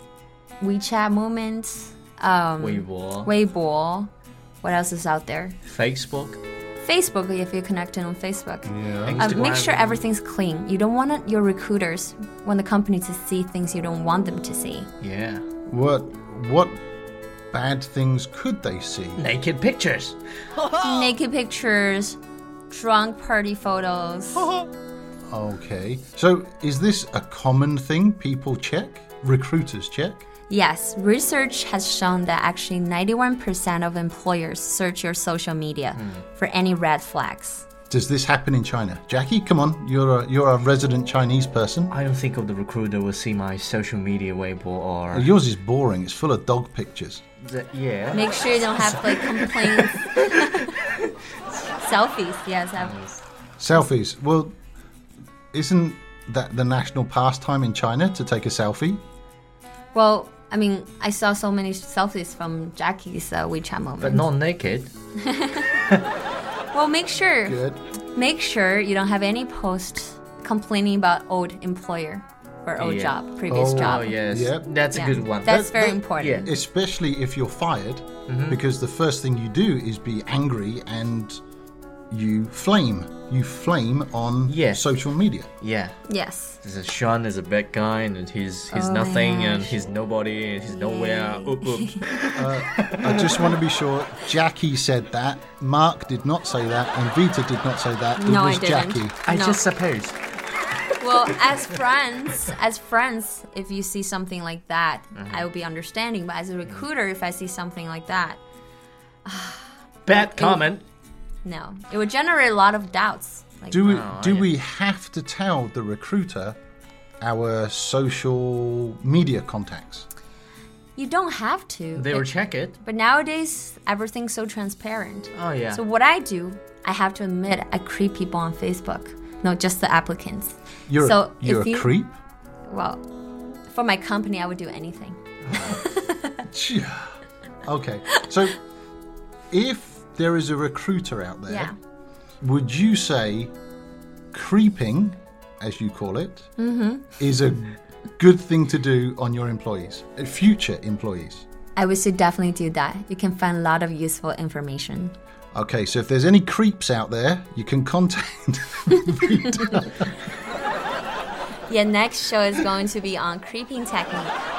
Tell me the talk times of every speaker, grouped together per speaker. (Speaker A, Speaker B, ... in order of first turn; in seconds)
Speaker A: 0.6-4.1, 4.6-5.6, 6.8-14.9, 20.8-22.2, 22.7-24.5, 30.5-37.7, 48.1-50.8, 51.7-53.2, 59.9-64.2, 65.2-65.8, 66.7-67.6, 68.1-74.2, 74.9-76.5, 86.1-86.6, 88.7-89.7, 90.7-92.0, 98.2-99.6, 101.0-108.4, 109.2-110.7, 111.4-113.9, 121.0-131.9, 132.7-133.0, 133.7-136.4, 141.5-141.7, 146.6-147.2, 151.8-155.2, 161.7-164.4
Speaker B: 2.6-3.3, 5.6-6.4, 9.1-10.0, 15.0-15.4, 19.2-21.1, 36.0-36.2, 41.9-45.3, 47.4-50.7, 52.8-53.0, 64.0-64.9, 72.8-75.6, 76.2-76.5, 78.3-78.6, 84.5-85.0, 85.6-86.0, 86.6-93.5, 99.2-100.2, 100.8-101.6, 105.2-105.5, 110.0-110.8, 113.8-114.5, 121.9-122.8, 125.3-125.8
Speaker C: 8.7-9.2, 15.7-16.8, 17.5-19.2, 25.3-30.2, 37.9-41.9, 45.1-47.2, 53.6-54.5, 55.5-59.0, 67.4-67.8, 73.5-74.7, 75.5-81.4, 82.1-85.5, 92.3-99.2, 113.7-116.5, 117.2-120.0, 130.9-132.2, 136.5-138.6, 139.5-141.7, 142.4-143.5, 144.3-146.5, 147.2-151.4, 155.5-160.1